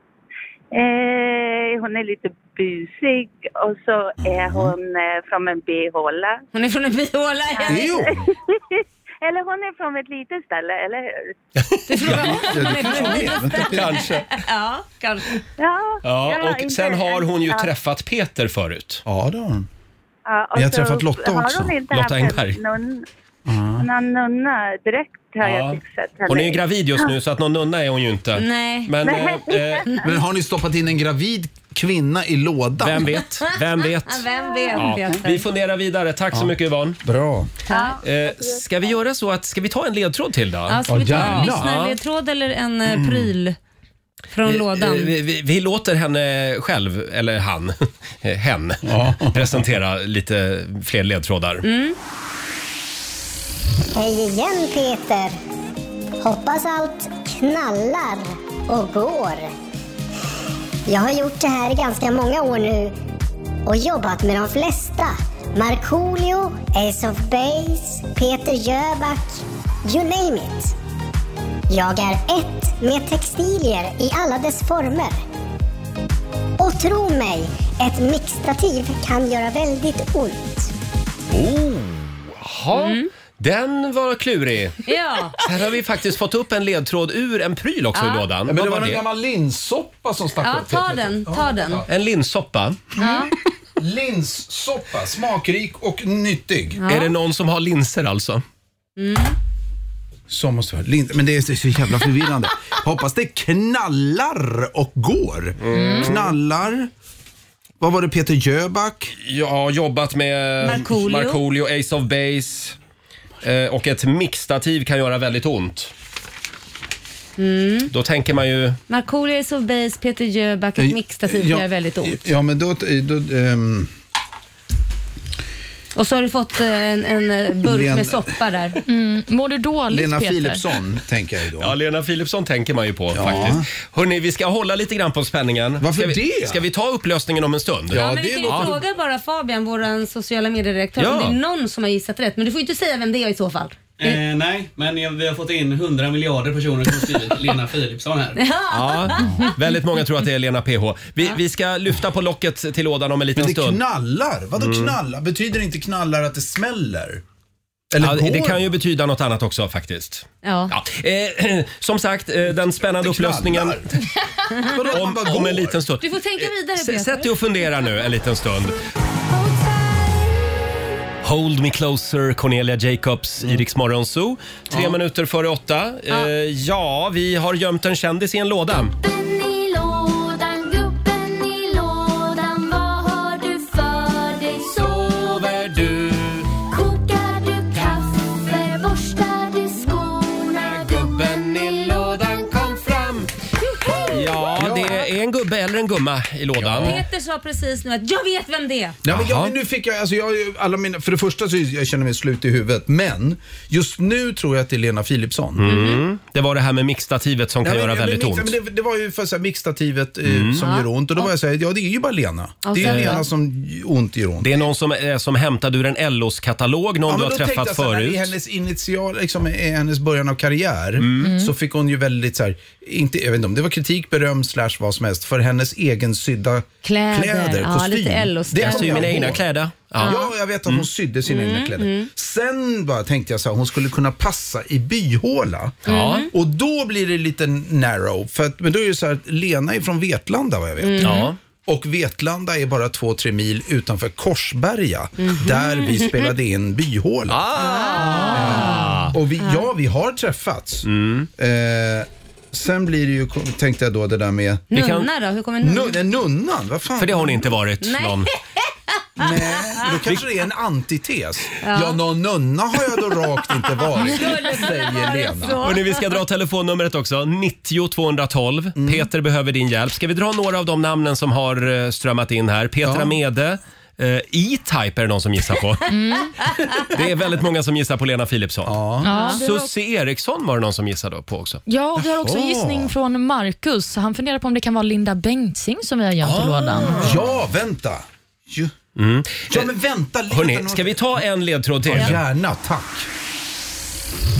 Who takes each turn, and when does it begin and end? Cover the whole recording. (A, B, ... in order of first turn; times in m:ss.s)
0:00.7-0:06.4 A
0:06.5-0:08.0 B
0:07.7-0:08.3 A
0:07.7-0:08.3 C
0:09.2-0:11.3 A
0:11.6-0:13.0 D
0:11.9-0:15.4 B
0:12.0-0:14.0 C
0:13.6-0:14.4 D
0:15.6-0:17.7 A
0:16.0-0:19.0 D
0:19.1-0:19.7 C
0:20.3-0:23.0 A
0:20.5-0:21.8 C
0:21.9-0:22.6 D
0:23.5-0:23.9 C
0:23.8-0:26.6 A
0:25.4-0:29.9 D
0:28.4-0:29.0 B
0:29.0-0:29.8 A
0:30.0-0:33.1 C
0:32.8-0:37.0 D
0:34.0-0:35.5 B
0:37.0-0:37.5 C
0:37.7-0:38.0 B
0:38.0-0:42.0 D
0:40.7-0:43.6 B
0:40.9-0:41.7 C
0:44.3-0:45.1 B
0:44.5-0:51.7 D
0:48.8-0:49.6 C
0:51.6-0:52.0 B
0:53.9-0:55.4 E
0:56.2-0:59.5 E
1:00.9-1:03.0 E
1:03.7-1:10.8 E
1:11.7-1:15.2 E
1:16.6-1:20.7 E
1:21.3-1:29.0 D
1:22.7-1:23.1 B
1:24.9-1:25.4 B
1:28.0-1:28.3 B
1:28.5-1:31.9 C
1:30.4-1:31.8 B
1:31.9-1:32.9 D
1:33.0-1:33.3 B
1:33.8-1:36.8 C
1:36.8-1:37.1 B
1:36.9-1:38.4 D
1:39.0-1:39.4 B
1:40.3-1:46.9 C
1:45.6-1:46.4 D
1:45.7-1:46.1 F
1:47.8-1:49.1 C
1:49.2-1:52.8 D
1:50.6-1:51.4 B
1:53.4-1:55.9 D
1:57.4-1:57.9 B
1:57.9-1:58.8 D
1:58.9-2:02.2 B
2:00.8-2:03.9 C
2:06.0-2:08.8 B
2:07.6-2:08.4 C
2:08.9-2:10.6 F
2:09.9-2:11.7 C
2:11.6-2:18.7 D
2:13.1-2:13.7 C
2:15.8-2:16.6 C
2:17.9-2:18.8 C
2:17.9-2:24.2 B
2:21.0-2:21.4 D
2:24.0-2:28.4 G
2:27.0-2:27.6 B
2:28.4-2:29.5 B
2:28.7-2:33.8 D
2:33.4-2:37.2 C
2:34.6-2:34.9 D
2:37.9-2:38.7 C
2:38.0-2:43.8 D
2:40.4-2:40.7 B
2:42.9-2:43.8 C
2:44.6-2:45.8 C
2:44.9-2:48.8 D
2:46.0-2:47.7 B
2:51.2-2:58.9 D
2:59.0-3:13.0 H
3:04.8-3:06.4 D
3:10.6-3:13.3 D
3:14.0-3:17.0 D
3:14.6-3:15.0 C
3:16.6-3:17.0 C
3:16.7-3:19.0 B
3:19.0-3:25.6 C
3:19.1-3:19.5 D
3:25.6-3:28.6 D
3:25.7-3:26.0 B
3:27.6-3:34.5 C
3:30.3-3:30.6 D
3:30.6-3:31.2 B
3:32.6-3:33.2 B
3:32.8-3:33.2 D
3:34.4-3:38.3 D
3:37.1-3:49.4 C
3:41.0-3:41.4 D
3:41.2-3:41.5 F
3:46.8-3:49.2 B
3:48.6-3:50.9 D
3:50.0-3:50.3 B
3:50.0-3:55.8 C
3:51.3-3:52.1 B
3:55.9-3:56.3 D
3:55.9-3:56.3 B
3:56.3-4:07.4 C
4:00.8-4:01.3 B
4:01.0-4:01.4 D
4:05.2-4:06.3 B
4:07.3-4:09.1 D
4:07.6-4:09.6 B
4:08.1-4:10.9 C
4:10.8-4:11.3 D
4:11.4-4:14.7 C
4:14.7-4:15.1 D
4:14.7-4:16.0 B
4:15.6-4:17.5 C
4:17.0-4:18.3 D
4:17.8-4:18.3 B
4:19.2-4:25.7 C
4:21.6-4:22.0 B
4:24.0-4:26.0 B
4:25.6-4:35.9 D
4:28.8-4:29.1 C
4:32.8-4:33.2 C
4:35.9-4:36.3 F
4:36.9-4:41.6 D
4:38.7-4:39.1 C
4:39.0-4:39.7 F
4:41.7-4:47.2 F
4:42.0-4:42.9 C
4:46.2-4:47.3 D
4:47.0-4:48.7 C
4:49.0-4:49.7 D
4:49.5-4:51.1 C
4:50.3-4:52.2 D
4:51.9-4:53.1 C